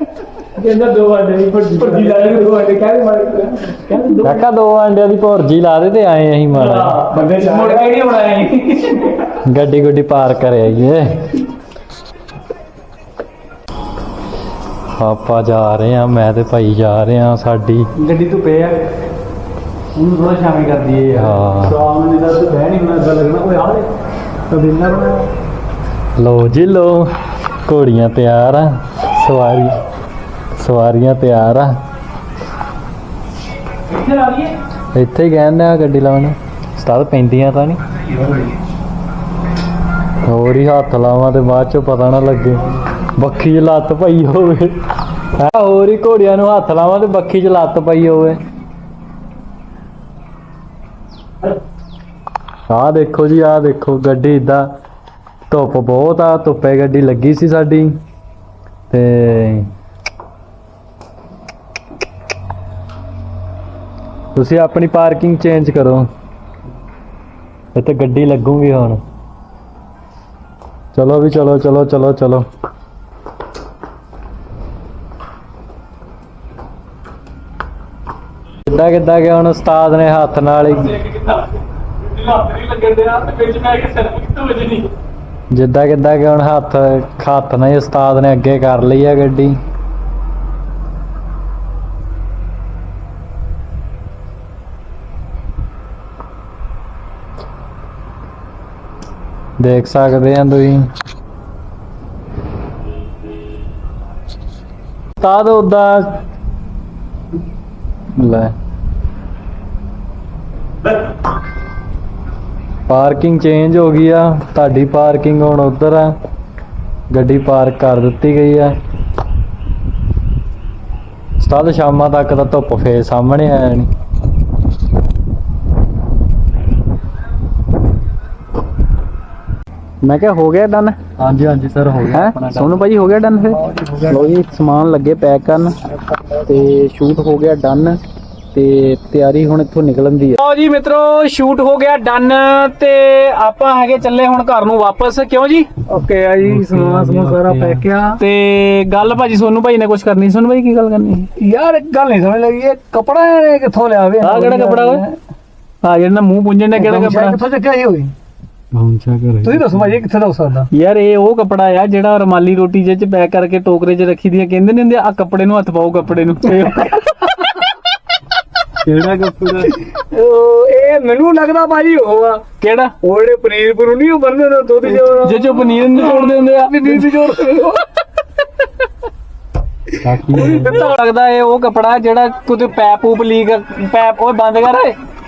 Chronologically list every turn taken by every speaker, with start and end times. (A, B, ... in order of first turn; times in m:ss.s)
0:00.6-0:02.4 A
0:01.8-0:04.0 B
0:03.8-0:04.5 A
0:04.2-0:07.0 C
0:06.5-0:09.1 A
0:07.1-0:08.0 B
0:09.5-0:11.4 C
0:15.0-0:17.9 C
0:18.0-0:18.8 A
0:20.0-0:23.9 A
0:21.1-0:21.8 C
0:24.5-0:25.3 A
0:26.2-0:29.8 C
0:30.5-0:31.8 C
0:33.9-0:34.5 A
0:34.9-0:37.8 C
0:40.3-0:44.8 C
0:45.4-0:48.4 C
0:52.7-0:54.7 C
0:55.5-0:58.0 C
0:58.9-0:59.7 C
1:04.4-1:06.1 C
1:07.8-1:09.0 C
1:11.0-1:12.5 C
1:18.7-1:21.0 C
1:20.9-1:24.9 A
1:25.5-1:29.6 C
1:39.6-1:40.9 C
1:45.2-1:46.2 C
1:48.2-1:48.5 C
1:52.9-1:56.1 C
1:57.1-1:58.8 C
2:01.4-2:03.9 C
2:10.0-2:11.0 A
2:11.2-2:12.9 C
2:12.1-2:15.8 A
2:13.5-2:14.3 B
2:16.5-2:18.0 A
2:18.5-2:25.7 A
2:25.9-2:28.2 B
2:26.4-2:27.8 C
2:28.2-2:31.3 A
2:31.4-2:35.2 B
2:34.2-2:35.0 A
2:35.8-2:37.4 A
2:36.8-2:38.1 B
2:38.7-2:40.0 C
2:39.4-2:40.7 B
2:40.7-2:47.7 A
2:48.8-2:49.7 C
2:49.9-2:52.5 B
2:52.6-2:53.0 A
2:53.0-2:57.9 B
2:55.2-2:57.6 A
3:00.0-3:00.9 C
3:00.3-3:05.0 A